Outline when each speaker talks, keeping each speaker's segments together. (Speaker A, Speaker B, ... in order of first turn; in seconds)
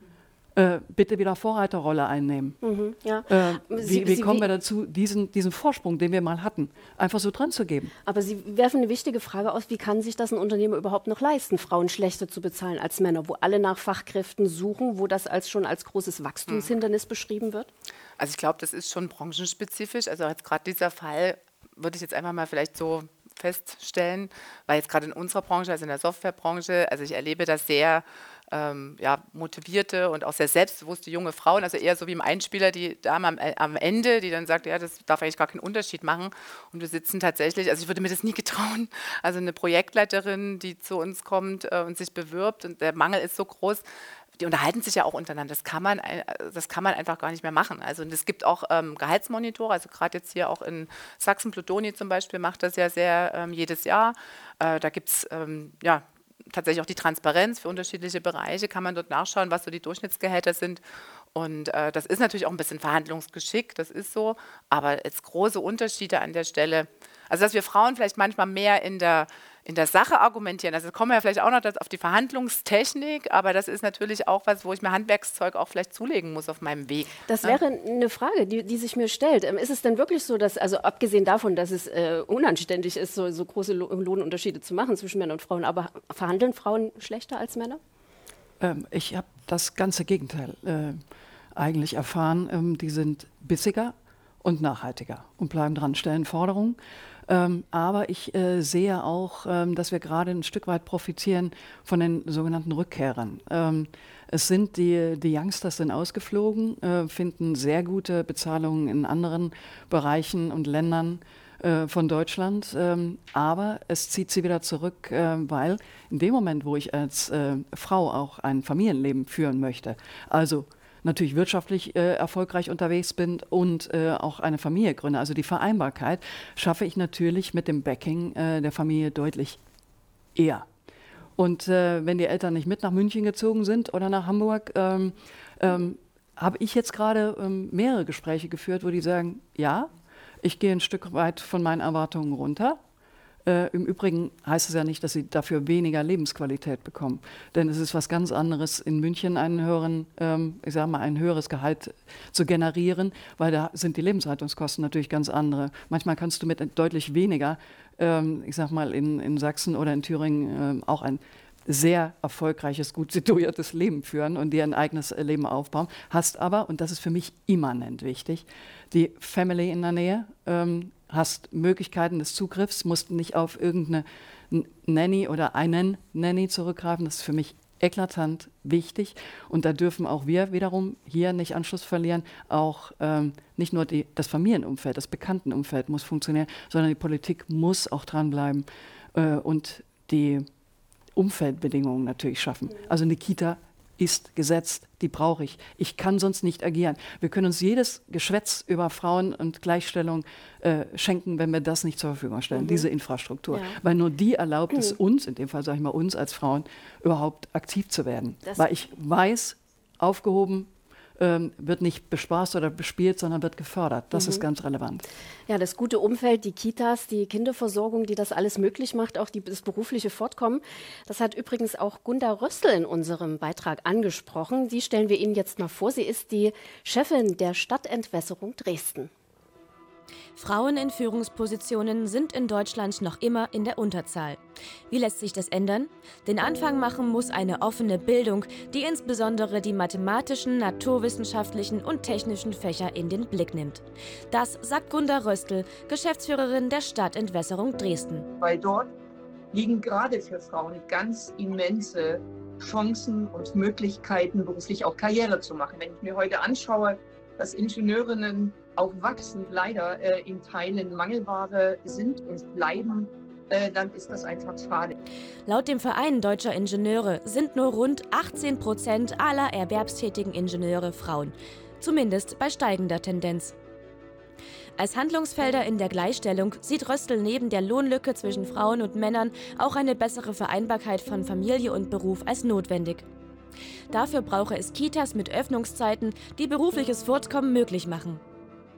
Speaker A: 0.6-2.6, 3.3-7.9, 88.6-91.0, 91.5-129.6, 130.3-130.7, 131.4-139.9, 140.4-142.8, 143.4-190.5, 191.2-215.1
Speaker B: 2.6-4.5, 8.1-17.7, 77.3-87.8, 202.5-202.9, 203.5-203.8, 214.1-214.4, 215.5-229.1
Speaker C: 18.2-43.8, 44.4-60.8, 61.3-77.6
Speaker D: 230.4-248.3, 265.5-273.6, 274.8-283.1, 283.9-288.2
Speaker E: 248.4-248.9, 249.5-265.0